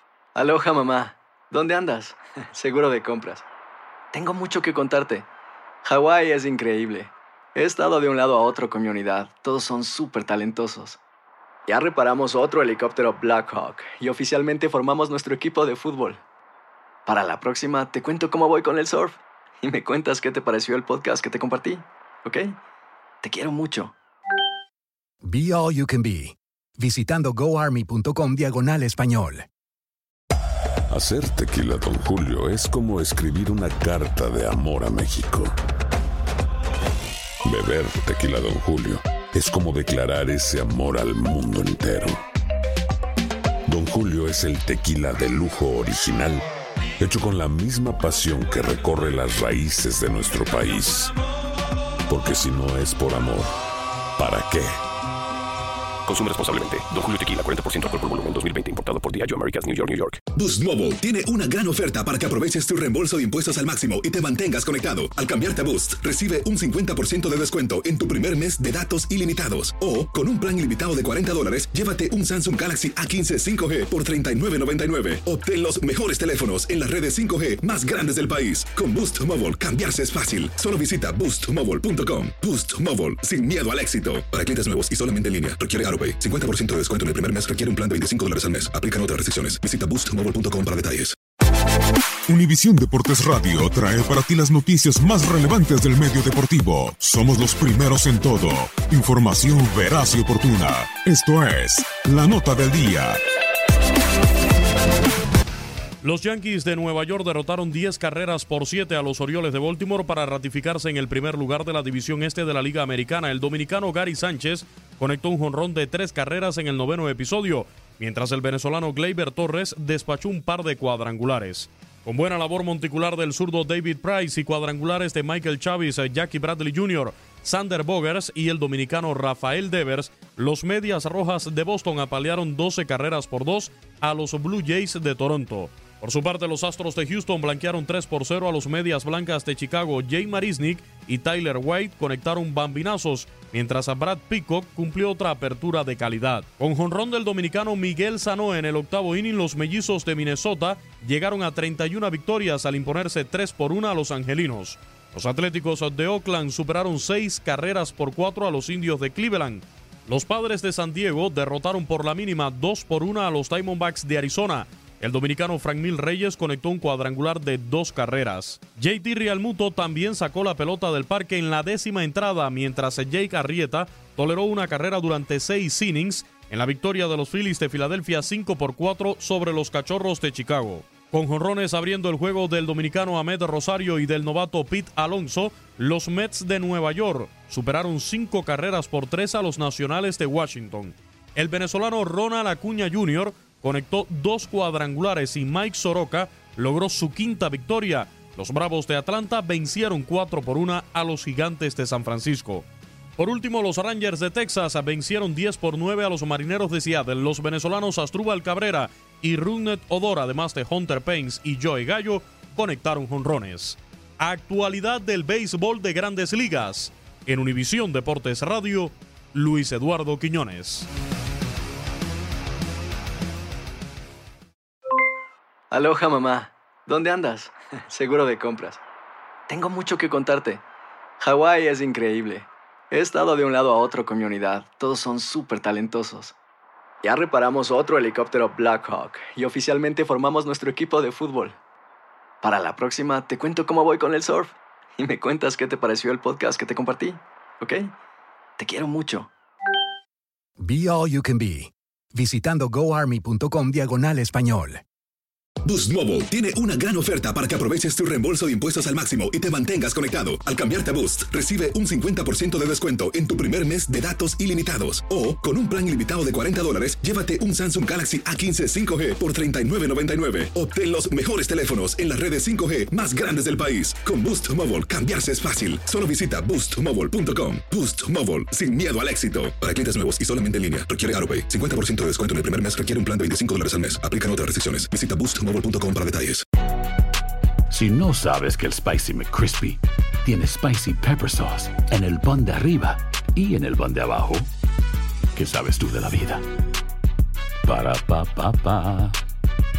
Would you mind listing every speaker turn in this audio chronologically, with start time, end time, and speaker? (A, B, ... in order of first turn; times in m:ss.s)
0:00.3-0:03.4 A
0:04.1-0:05.2 A
0:05.8-0:11.0 A
0:11.7-0:16.2 A
0:17.0-0:22.5 A
0:23.2-0:23.9 A
0:25.2-0:29.4 B
0:30.9-0:35.5 C
0:37.4-0:42.2 C
0:43.6-0:46.4 C
0:47.0-0:51.1 C
0:52.1-0:53.5 C
0:54.2-0:54.8 C
0:56.1-1:00.2 D
1:00.3-1:31.1 E
1:32.3-1:43.2 F
1:46.0-3:22.6 G
3:23.2-3:40.9 G
3:45.7-3:48.8 A
3:49.5-3:50.6 A
3:51.2-3:56.3 A
3:57.0-4:01.6 A
4:02.4-4:07.9 A
4:08.6-4:09.3 A
4:10.6-4:14.8 B
4:15.6-4:46.4 E
4:47.7-4:48.5 F
4:48.1-4:49.6 H
4:49.2-4:49.6 F
4:50.7-4:54.0 H
4:51.1-4:52.5 F
4:53.7-4:54.4 F
4:55.4-4:55.9 H
4:55.6-4:56.4 F
4:57.7-4:58.7 H
4:58.6-4:59.0 F